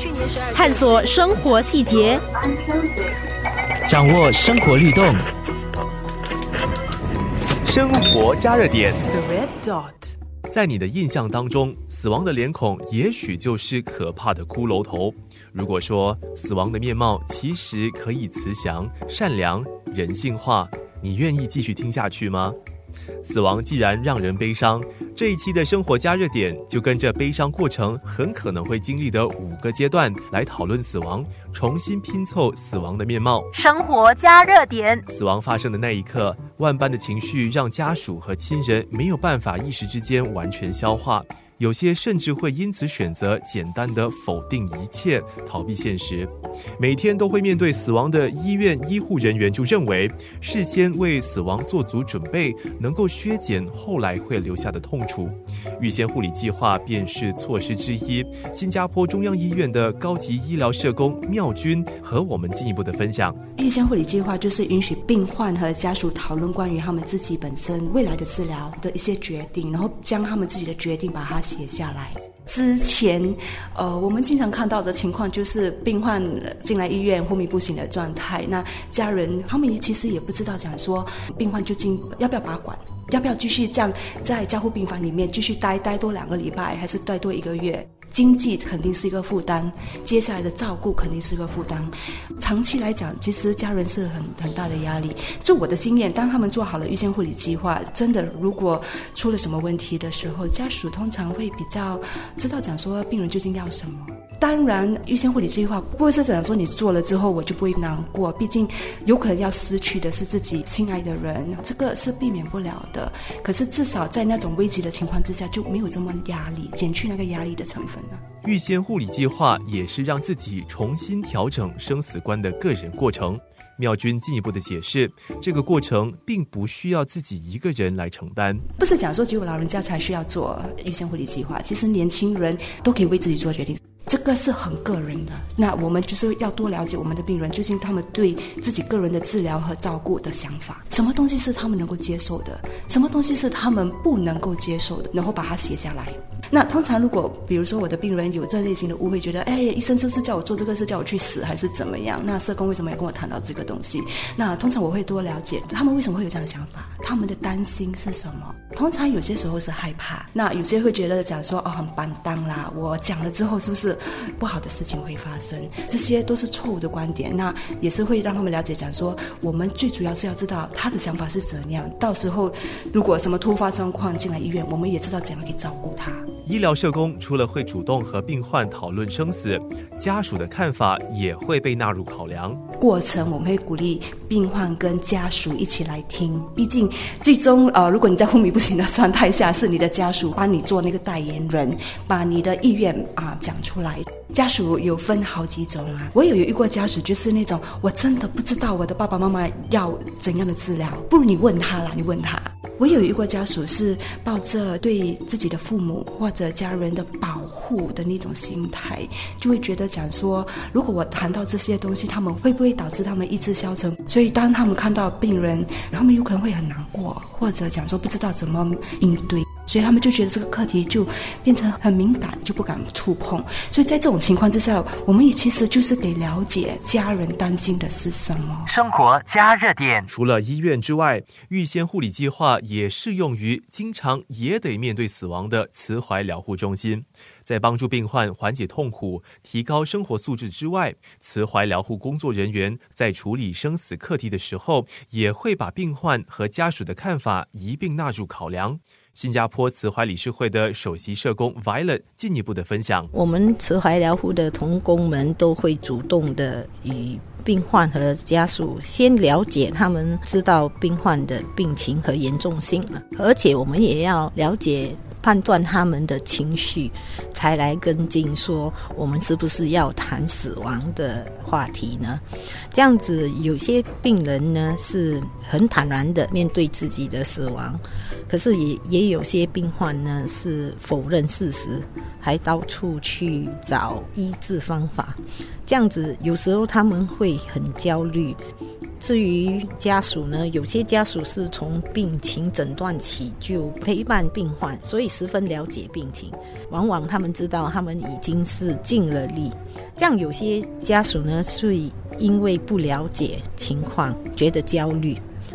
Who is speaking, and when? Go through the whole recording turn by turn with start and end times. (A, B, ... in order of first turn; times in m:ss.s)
0:00.5-0:02.2 A
0:03.9-0:05.2 B
0:04.0-0:05.2 C
0:07.6-0:09.0 C
0:10.5-0:22.6 C
0:23.2-0:33.5 C
0:33.5-0:35.0 A
0:35.1-1:03.4 C
1:03.6-1:58.2 D
1:58.4-2:08.6 C
2:08.8-2:56.3 D
2:56.4-3:02.6 C
3:02.8-3:48.7 D
3:48.6-3:50.1 B
3:50.1-4:13.1 C
4:13.1-4:48.4 E
4:49.0-5:05.2 E